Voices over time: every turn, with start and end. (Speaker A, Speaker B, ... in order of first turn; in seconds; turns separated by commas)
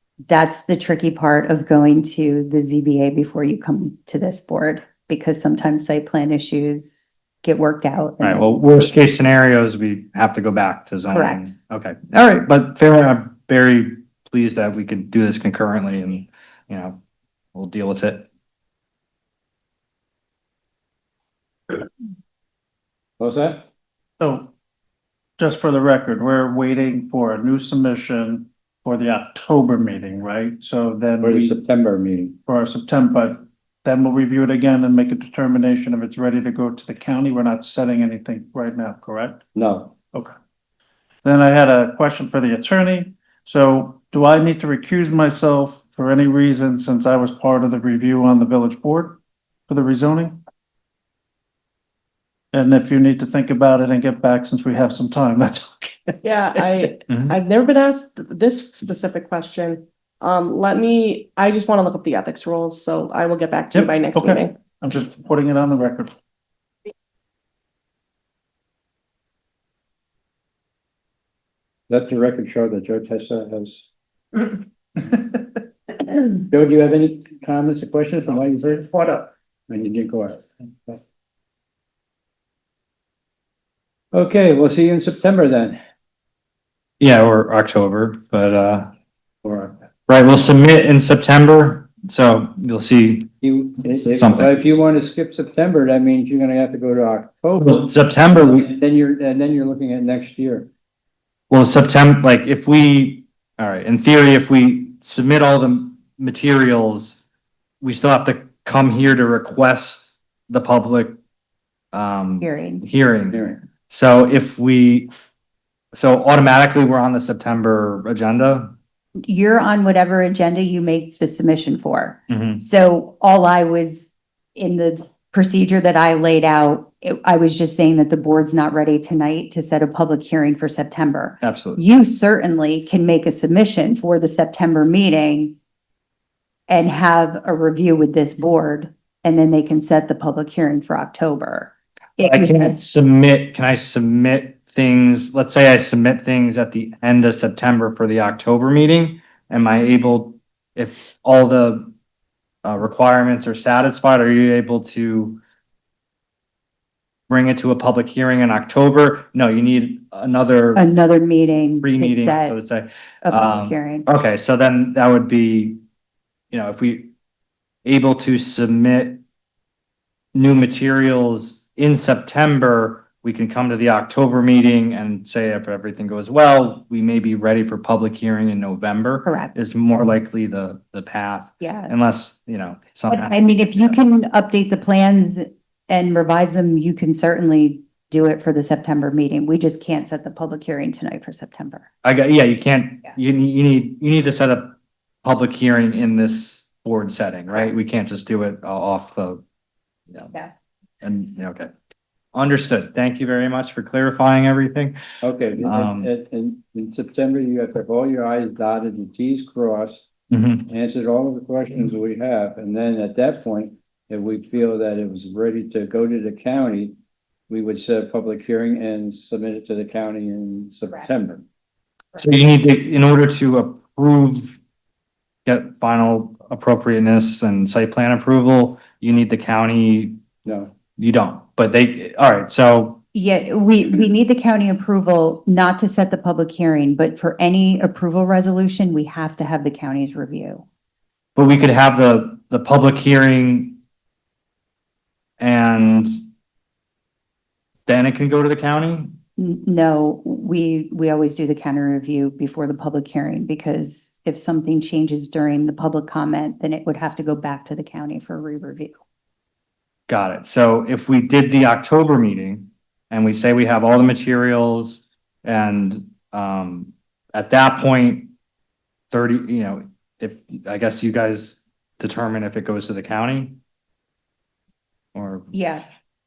Speaker A: 0.2-8.5, Speaker B: 8.2-17.0, Speaker A: 11.1-11.5, Speaker B: 17.5-18.3, Speaker C: 23.2-23.6, Speaker D: 24.2-24.5, Speaker D: 25.4-31.6, Speaker C: 31.2-32.4, Speaker D: 32.5-39.4, Speaker C: 39.5-39.9, Speaker D: 41.2-50.4, Speaker D: 52.5-57.3, Speaker E: 56.2-64.5, Speaker D: 63.7-66.1, Speaker C: 71.9-73.9, Speaker C: 76.3-81.0, Speaker C: 84.1-85.8, Speaker B: 87.0-88.9, Speaker C: 89.4-89.7, Speaker B: 90.1-93.3, Speaker C: 93.4-97.9, Speaker B: 94.1-94.7, Speaker B: 97.6-98.7, Speaker C: 98.4-100.7, Speaker B: 101.5-107.2, Speaker B: 107.8-111.2, Speaker B: 111.9-115.1, Speaker A: 112.4-112.8, Speaker C: 113.3-113.6, Speaker B: 115.9-118.7, Speaker A: 119.2-135.6, Speaker B: 122.3-122.6, Speaker B: 131.4-131.8, Speaker A: 136.7-142.8, Speaker B: 142.2-151.9, Speaker B: 152.6-155.4, Speaker B: 157.3-160.9, Speaker A: 160.8-162.6, Speaker B: 161.8-165.8, Speaker A: 163.2-164.1, Speaker B: 166.5-167.1, Speaker B: 167.8-169.2, Speaker B: 170.3-183.9, Speaker A: 179.2-179.5, Speaker A: 181.6-181.9, Speaker A: 183.1-191.9, Speaker B: 192.0-199.4, Speaker B: 201.0-201.7, Speaker B: 202.3-205.0, Speaker C: 205.2-210.1, Speaker B: 205.6-206.1, Speaker B: 210.3-210.7, Speaker C: 210.7-216.9, Speaker C: 217.5-221.4, Speaker B: 222.2-224.6, Speaker B: 225.4-230.2, Speaker C: 230.4-230.7, Speaker B: 231.0-233.0, Speaker A: 233.1-240.6, Speaker B: 241.3-243.8, Speaker B: 245.4-246.1, Speaker B: 247.9-249.1, Speaker A: 249.4-259.0, Speaker B: 260.1-268.3, Speaker B: 269.1-273.6, Speaker B: 275.1-275.5, Speaker A: 275.5-275.9